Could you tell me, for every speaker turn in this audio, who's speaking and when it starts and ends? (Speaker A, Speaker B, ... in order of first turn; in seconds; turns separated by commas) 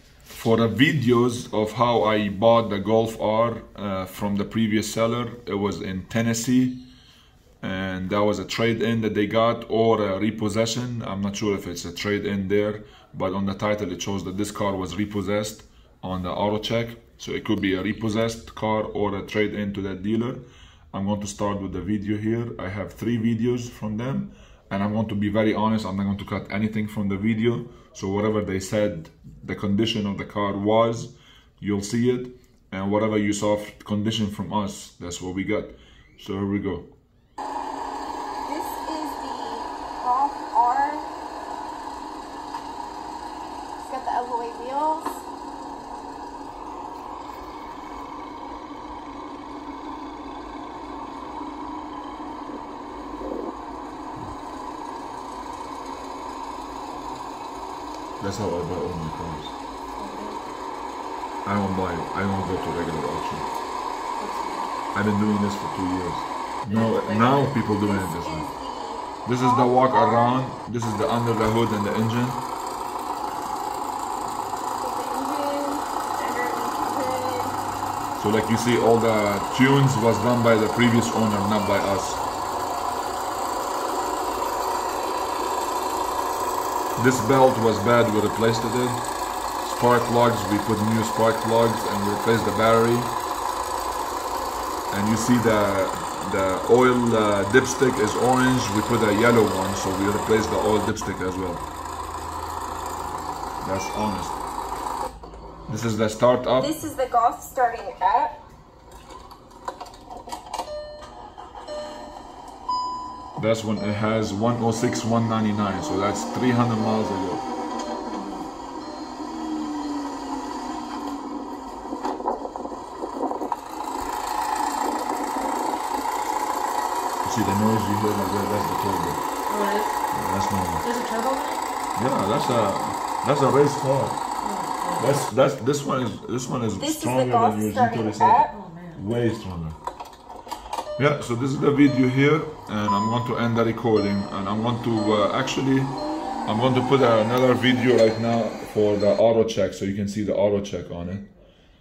Speaker A: 0.3-6.8, Speaker A: 7.6-36.9, Speaker B: 38.5-41.1, Speaker B: 43.8-45.2, Speaker A: 58.2-59.6, Speaker C: 60.0-60.4, Speaker A: 61.5-63.5, Speaker C: 64.2-64.7, Speaker A: 64.9-68.5, Speaker C: 66.7-67.1, Speaker B: 66.8-70.4, Speaker A: 69.2-72.4, Speaker B: 74.8-77.6, Speaker A: 78.2-82.2, Speaker A: 87.0-89.0, Speaker A: 89.6-93.2, Speaker A: 94.9-101.6, Speaker A: 103.6-104.4, Speaker A: 105.7-106.8, Speaker B: 106.6-108.4, Speaker A: 113.4-117.4, Speaker C: 118.1-118.4, Speaker A: 127.2-129.2, Speaker C: 129.5-130.0, Speaker A: 130.1-130.9, Speaker C: 130.8-131.7, Speaker A: 132.0-134.2, Speaker C: 134.4-135.2, Speaker A: 135.0-139.8, Speaker B: 136.8-138.5, Speaker C: 138.5-139.0, Speaker A: 141.0-151.3